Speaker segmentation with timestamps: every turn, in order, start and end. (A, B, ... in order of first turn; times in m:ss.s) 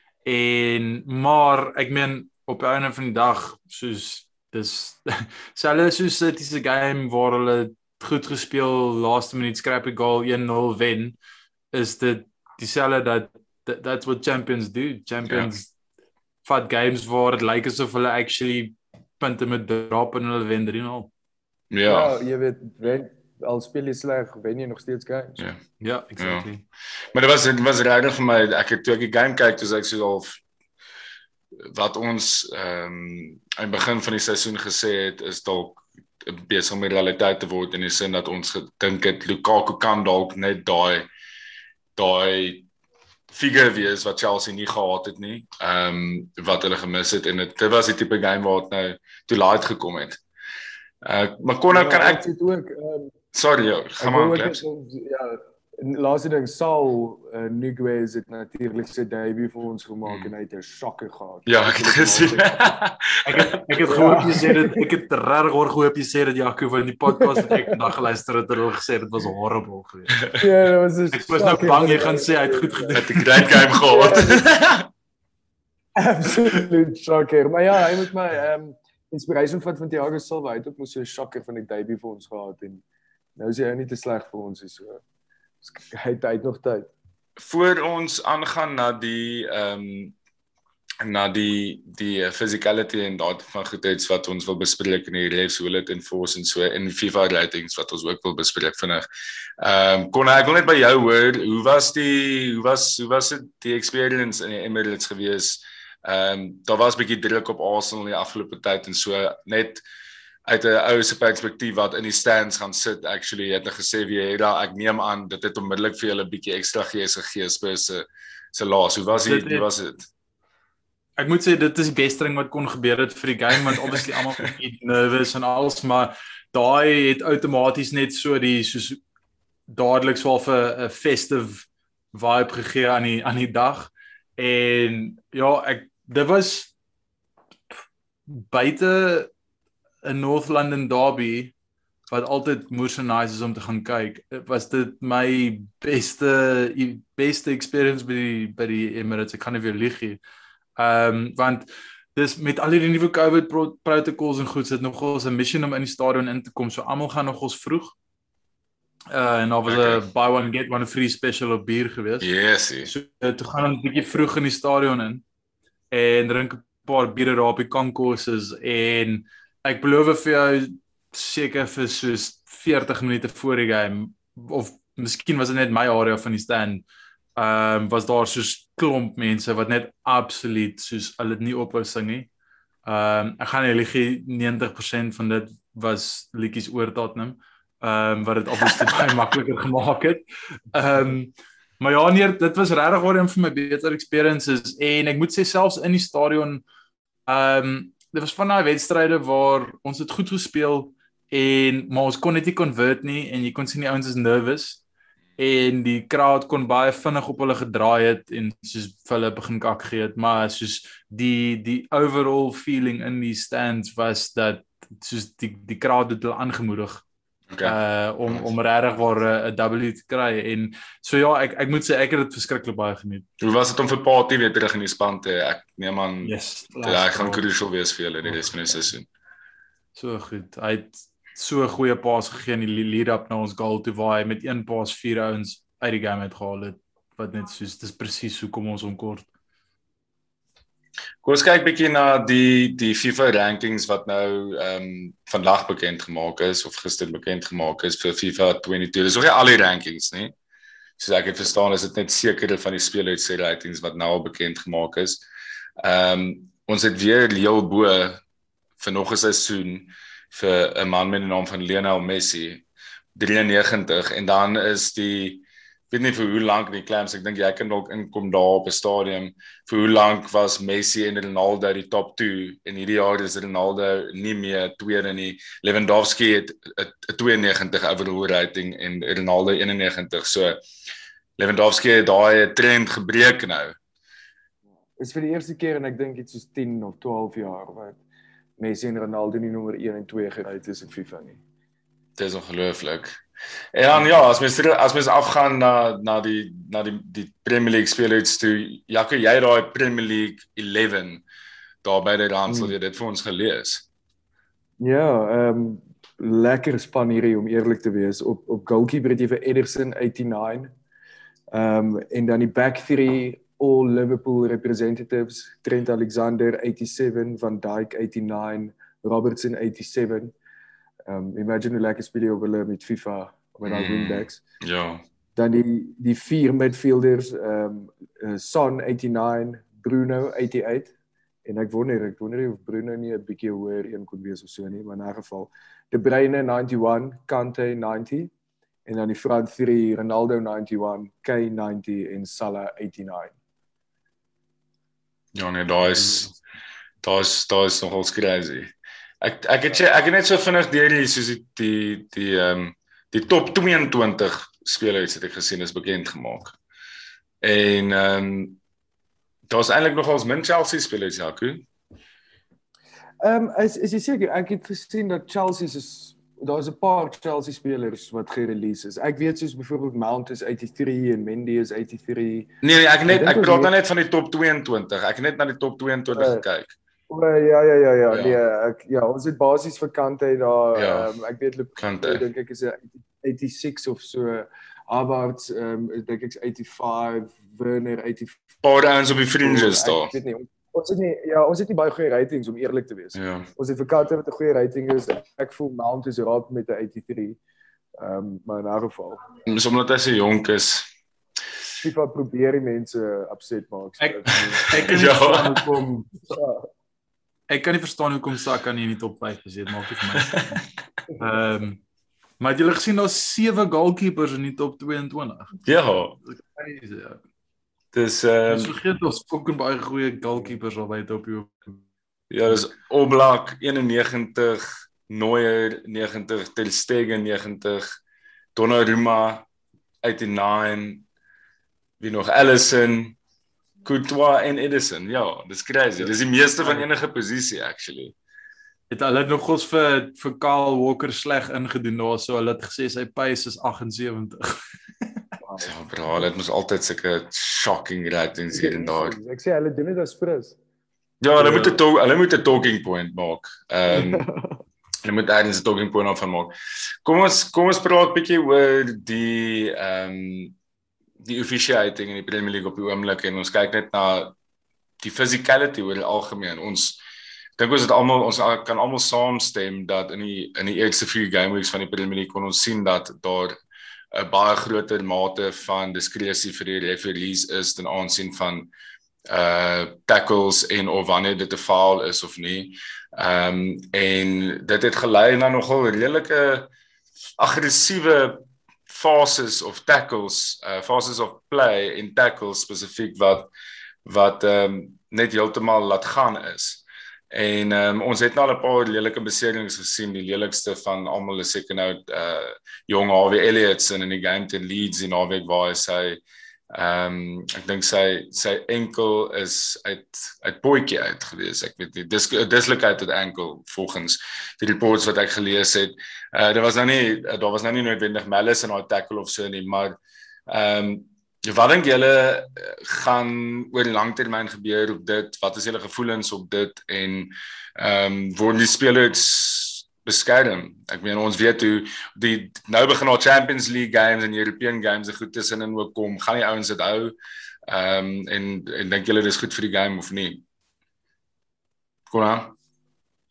0:00.2-0:11.2 A
0:11.7-0:15.7 A
0:15.2-0:15.5 B
0:16.4-0:21.1 A
0:21.7-0:22.1 B
0:21.9-0:25.4 C
0:25.8-0:26.6 A
0:26.2-0:26.5 B
0:27.1-0:30.4 B
0:31.7-0:41.1 B
0:42.0-0:42.7 B
0:43.3-0:50.2 B
0:51.0-0:52.2 B
0:51.7-0:53.1 C
0:53.3-0:54.6 B
0:54.0-1:02.8 C
1:00.0-1:00.3 B
1:01.5-1:03.7 B
1:03.2-1:10.2 A
1:03.9-1:04.9 C
1:07.2-1:07.8 C
1:10.4-1:13.0 C
1:11.1-1:13.3 A
1:13.0-1:14.9 B
1:13.8-1:14.5 C
1:16.0-1:22.8 C
1:23.4-1:25.0 C
1:25.6-1:26.9 C
1:27.4-1:30.2 B
1:31.0-1:39.0 B
1:39.6-1:49.8 B
1:50.5-2:00.1 B
1:59.2-1:59.7 A
2:01.2-2:09.0 A
2:09.7-2:16.7 A
2:18.3-2:19.3 A
2:20.0-2:21.5 A
2:22.1-2:30.2 A
2:30.8-2:37.9 A
2:39.1-2:42.3 A
2:39.7-2:40.0 B
2:42.2-2:42.9 B
2:42.9-2:45.2 A
2:45.9-2:56.8 A
2:57.4-3:02.3 A
3:02.8-3:16.6 A
3:17.3-3:24.8 A
3:25.4-3:37.0 A
3:37.6-3:43.3 A
3:43.4-3:49.1 B
3:46.2-3:47.4 A
3:50.0-3:59.3 A
4:01.2-4:10.3 B
4:11.0-4:15.2 B
4:15.8-4:18.2 B
4:18.8-4:40.6 B
4:41.4-4:43.8 B
4:45.0-4:48.0 C
4:48.6-4:51.4 C
4:52.2-4:53.2 B
4:53.7-5:01.2 B
5:01.8-5:03.8 B
5:02.5-5:02.7 C
5:04.8-5:10.7 C
5:11.5-5:20.3 C
5:21.1-5:24.4 C
5:23.6-5:25.0 B
5:25.4-5:30.9 C
5:31.4-5:38.3 C
5:38.9-5:43.3 C
5:45.4-5:46.3 B
5:47.0-5:56.6 B
5:57.4-5:58.6 B
5:59.5-6:01.7 B
6:03.2-6:12.5 C
6:12.6-6:16.8 B
6:13.1-6:13.7 C
6:16.1-6:16.4 C
6:17.1-6:28.4 C
6:18.1-6:18.4 B
6:20.7-6:21.1 B
6:21.8-6:22.2 B
6:28.6-6:30.1 B
6:29.4-6:37.4 C
6:33.2-6:33.5 B
6:38.0-6:39.3 C
6:39.5-6:40.9 B
6:41.8-6:44.8 C
6:44.0-6:46.3 A
6:44.7-6:45.6 B
6:46.3-6:46.7 C
6:47.5-6:50.6 A
6:50.2-6:50.6 B
6:51.2-6:51.8 A
6:52.4-6:55.5 A
6:55.6-6:56.2 B
6:56.3-6:57.2 A
6:57.9-6:58.7 B
6:58.5-7:01.8 A
7:02.3-7:08.0 B
7:08.6-7:09.5 B
7:10.0-7:11.1 B
7:12.0-7:13.2 B
7:13.8-7:18.2 B
7:18.9-7:25.2 A
7:25.4-7:25.7 C
7:25.6-7:29.2 B
7:28.5-7:30.6 C
7:31.2-7:34.3 B
7:31.4-7:31.8 A
7:33.9-7:34.6 C
7:35.0-7:36.5 B
7:37.0-7:40.6 B
7:41.2-7:44.4 B
7:45.0-7:47.0 B
7:47.6-7:53.6 B
7:54.1-7:58.7 B
7:59.3-8:06.7 B
8:07.4-8:13.5 B
8:14.0-8:57.1 B
8:57.7-9:00.4 B
9:02.1-9:02.6 B